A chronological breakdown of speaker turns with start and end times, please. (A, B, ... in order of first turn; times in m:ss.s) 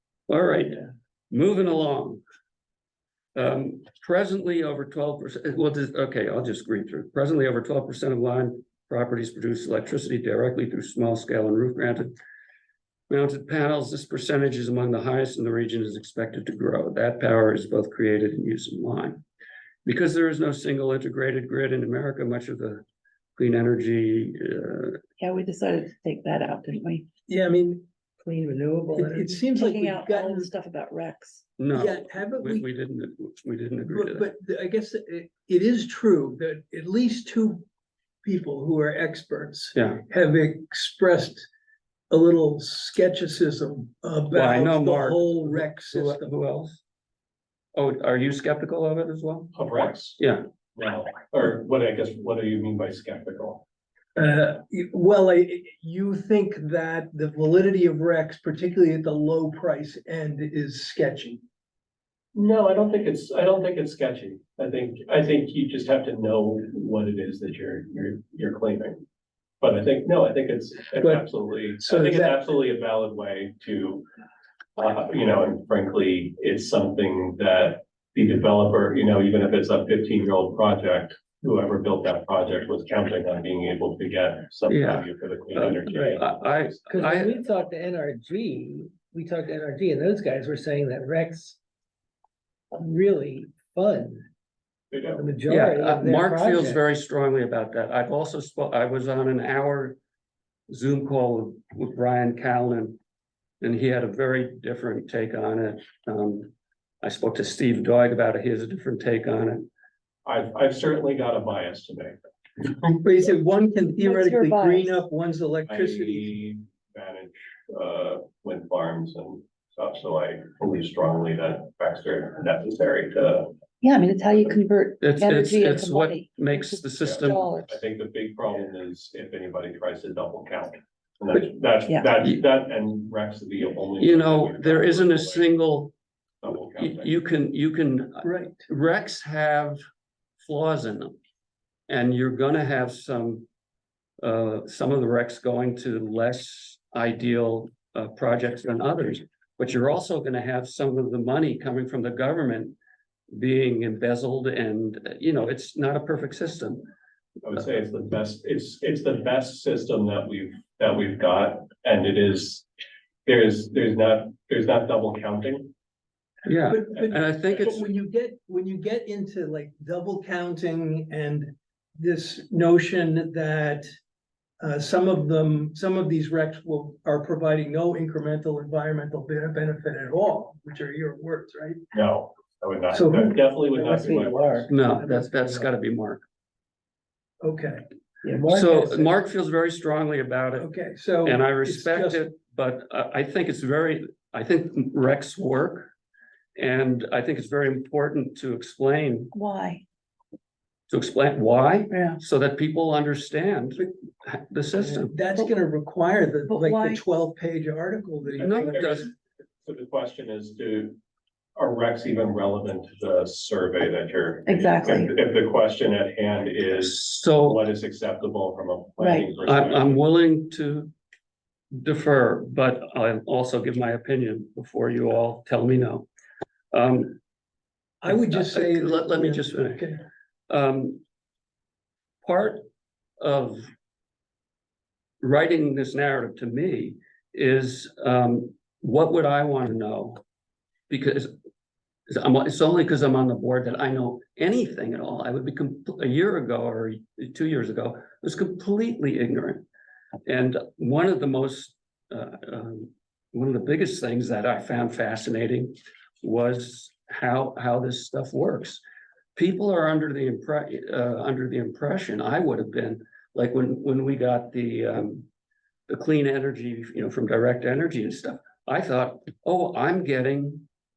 0:00.3-0:02.2 A
0:03.3-0:12.1 A
0:13.1-0:19.2 A
0:19.8-0:22.8 A
0:23.4-0:25.0 A
0:25.2-0:27.1 B
0:27.3-0:27.8 C
0:28.2-0:29.5 D
0:28.9-0:30.5 C
0:29.5-0:31.4 B
0:31.6-0:34.3 A
0:31.7-0:32.7 C
0:33.8-0:37.6 C
0:38.2-0:41.5 C
0:39.7-0:40.0 A
0:42.1-0:46.3 C
0:44.3-0:46.8 A
0:47.7-0:49.5 A
0:49.5-0:50.2 E
0:50.2-0:50.4 A
0:50.8-0:53.6 E
0:54.2-1:01.4 C
1:02.3-1:09.0 E
1:09.6-1:14.0 E
1:11.8-1:12.4 C
1:14.8-1:26.8 E
1:24.7-1:27.3 A
1:26.8-1:31.6 D
1:32.7-1:34.3 D
1:34.9-1:35.3 E
1:35.2-1:36.8 D
1:35.4-1:40.0 A
1:40.7-1:43.0 A
1:43.6-1:49.7 A
1:50.2-1:52.8 E
1:53.0-1:56.3 C
1:53.8-1:55.0 B
1:55.6-2:03.6 E
2:03.8-2:07.8 B
2:05.0-2:07.4 A
2:07.0-2:15.5 E
2:14.0-2:15.9 A
2:16.4-2:17.1 E
2:16.8-2:19.8 A
2:18.2-2:18.6 C
2:20.4-2:21.1 A
2:21.9-2:23.4 A
2:24.2-2:32.8 A
2:33.3-2:36.8 A
2:37.4-2:42.6 E
2:43.2-2:45.7 E
2:46.4-2:47.8 A
2:46.7-2:53.8 C
2:54.6-3:01.8 C
3:01.9-3:04.8 E
3:02.9-3:03.4 C
3:03.6-3:05.7 D
3:04.7-3:06.2 A
3:07.4-3:07.8 C
3:08.2-3:09.2 D
3:08.5-3:10.7 A
3:10.6-3:12.3 C
3:11.2-3:15.9 A
3:16.6-3:19.3 A
3:19.3-3:19.8 B
3:20.9-3:25.2 A
3:21.9-3:22.2 B
3:25.1-3:29.1 C
3:26.4-3:27.0 B
3:28.4-3:29.1 A
3:28.4-3:31.0 E
3:31.6-3:40.0 E
3:34.4-3:35.1 B
3:36.8-3:37.6 A
3:39.0-3:39.3 B
3:39.4-3:40.9 A
3:41.8-3:46.1 A
3:46.7-3:47.2 A
3:48.0-3:50.0 C
3:48.1-3:49.9 A
3:50.5-3:51.0 A
3:52.2-3:52.6 A
3:53.2-3:53.6 A
3:55.2-4:00.2 A
4:00.9-4:01.3 A
4:02.1-4:09.6 A
4:10.2-4:18.8 A
4:19.3-4:25.3 A
4:25.9-4:30.6 A